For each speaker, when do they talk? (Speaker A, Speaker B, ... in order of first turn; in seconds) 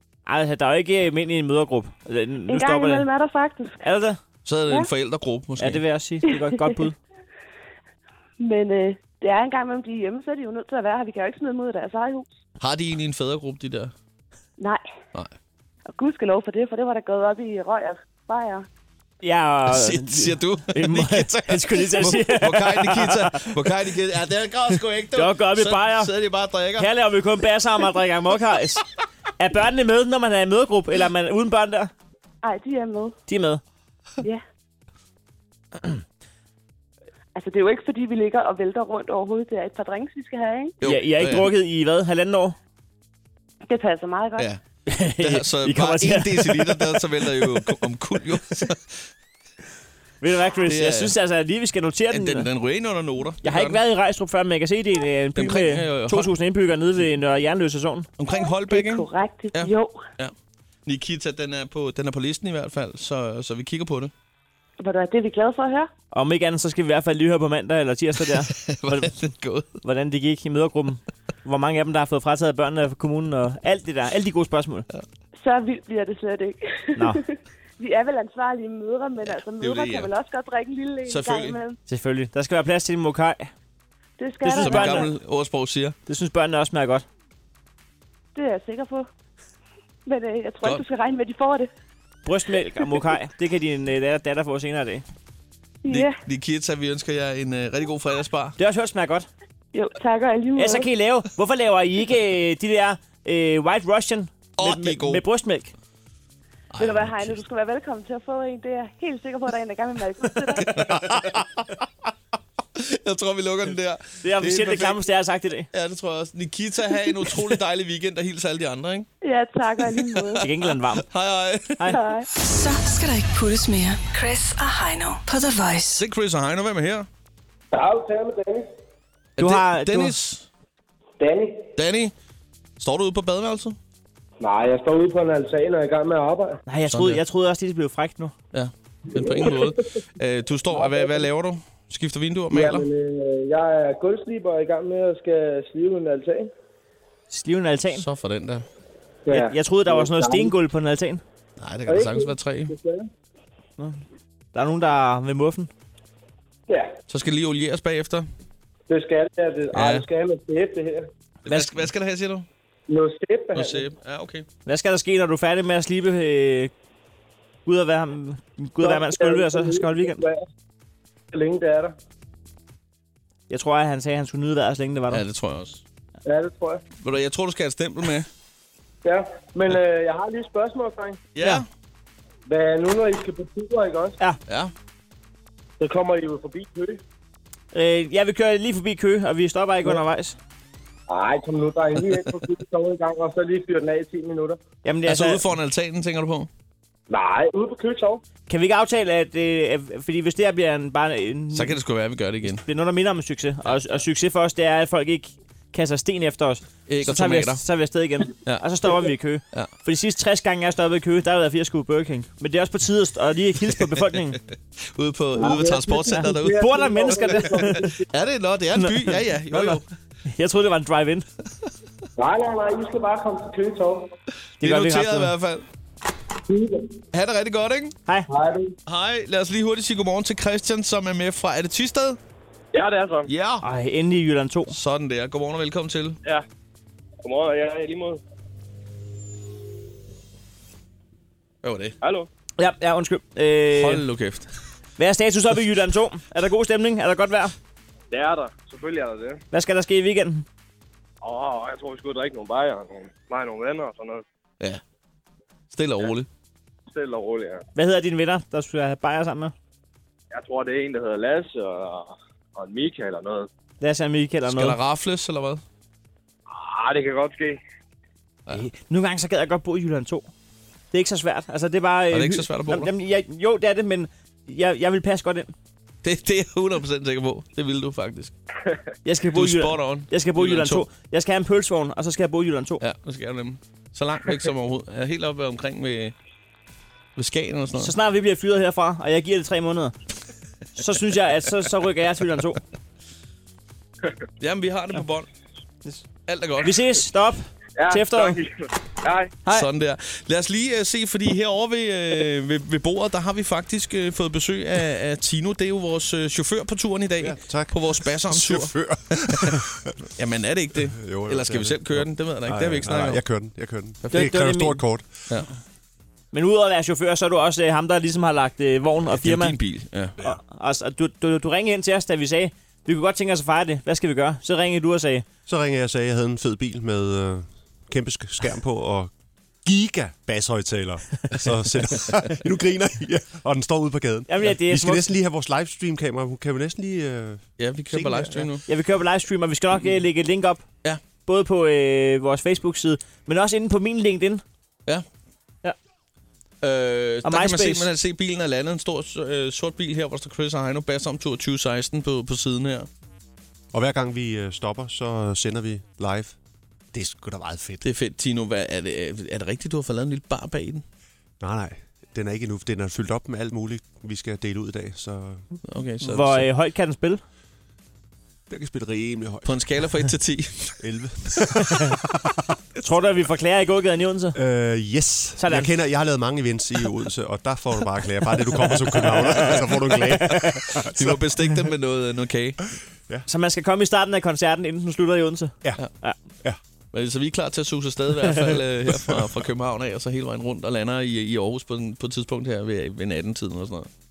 Speaker A: 0.3-3.0, 3.8-4.2, 5.6-6.9, 19.2-23.5, 25.1-26.1, 26.8-28.8, 29.4-31.9, 33.3-33.6, 40.8-42.5, 44.9-47.0, 50.2-52.5, 53.4-58.1, 66.1-69.1, 69.8-74.8, 77.0-77.2, 81.9-83.5, 84.4-85.1, 86.1-87.0, 92.2-95.0, 98.6-99.3, 100.5-105.7, 114.2-115.7, 120.4-121.0, 129.4-130.2, 136.7-138.3, 147.3-148.0, 149.3-151.2, 154.5-155.7, 161.5-161.8, 164.7-166.7, 167.7-170.2, 173.5-175.2, 187.7-190.3, 194.8-195.4, 198.5-201.8, 202.4-214.4, 216.2-217.9, 218.7-221.2, 224.6-225.3, 233.6-234.7, 242.6-244.0, 245.0-247.5, 249.5-250.4, 257.7-259.5, 263.8-264.8, 268.5-270.2, 270.9-275.5, 279.0-282.8, 287.8-289.9, 290.8-292.6, 296.6-298.4, 314.1-314.8, 316.3-319.6, 320.2-325.2, 334.3-335.0, 338.7-340.6, 341.2-344.4, 347.2-347.9, 366.0-367.2, 372.8-374.4, 375.4-375.7, 379.4-380.7, 383.3-386.2
Speaker B: 2.5-3.8, 6.3-6.8, 8.4-12.3, 14.6-14.8, 15.9-18.7, 32.4-33.1, 37.3-40.8, 43.6-44.5, 58.5-60.0, 64.8-65.9, 75.3-81.8, 84.2-85.1, 88.3-89.1, 90.0-91.7, 95.8-96.2, 99.7-100.9, 106.8-111.1, 119.2-120.5, 121.9-122.3
Speaker C: 4.4-5.8, 12.6-13.9, 19.6-26.9, 40.8-41.5, 44.4-49.0, 50.6-51.1, 52.1-53.8, 55.3-56.3, 58.2-60.3, 60.9-64.1, 68.3-69.8, 79.2-80.1, 81.1-81.6, 84.6-86.0, 95.9-98.5, 104.6-105.2, 106.7-107.4, 110.6-111.7, 112.8-115.0, 115.7-119.1, 119.8-122.0, 126.0-127.1, 129.4-130.5, 131.8-132.1, 132.8-133.8, 136.8-137.2, 138.5-142.8, 147.9-148.6, 151.6-152.7, 157.1-158.3, 159.7-160.1, 161.4-162.4, 163.5-164.5, 175.1-175.8, 177.0-178.3, 181.3-181.7, 184.5-184.7, 195.1-196.5, 201.5-202.6, 203.6-204.0, 206.9-207.7, 208.3-208.7, 213.8-214.2, 214.9-219.8, 224.6-225.6, 227.1-228.0, 228.8-232.2, 233.2-233.7, 234.7-236.2, 241.6-241.9, 243.7-244.5, 255.7-256.3, 264.4-265.6, 272.1-272.9, 276.0-278.3, 279.3-280.9, 282.8-286.1, 287.1-287.9, 294.4-295.3, 296.3-296.9, 299.4-309.6, 310.1-313.2, 314.0-314.3, 319.1-320.2, 337.6-338.6, 346.6-352.9, 357.8-360.8, 365.6-366.5, 369.4-370.8, 380.9-382.6, 386.9-393.9
Speaker D: 122.3-126.0
Speaker E: 127.7-128.7, 131.2-131.6, 134.4-136.6, 139.1-139.8, 140.7-141.3, 142.5-146.5, 149.2-150.5, 151.9-153.1, 156.7-156.9, 158.9-161.1, 162.9-163.9, 168.8-170.4, 171.3-171.9, 176.2-176.8, 179.0-181.2, 182.4-184.2, 185.8-187.0, 191.1-194.6, 197.1-198.2, 215.3-218.0, 222.2-224.1, 226.5-226.9, 228.3-228.7
Speaker F: 232.7-233.3, 237.2-238.2, 242.0-242.3, 248.1-249.4, 251.2-254.2, 256.9-257.6, 260.3-263.5, 266.5-267.6, 297.8-299.4
Speaker G: 307.2-309.7, 310.8-315.3, 325.5-329.1, 329.6-338.5, 353.7-356.3, 356.9-357.8, 361.4-365.4, 368.5-370.1, 370.8-372.0, 374.3-381.7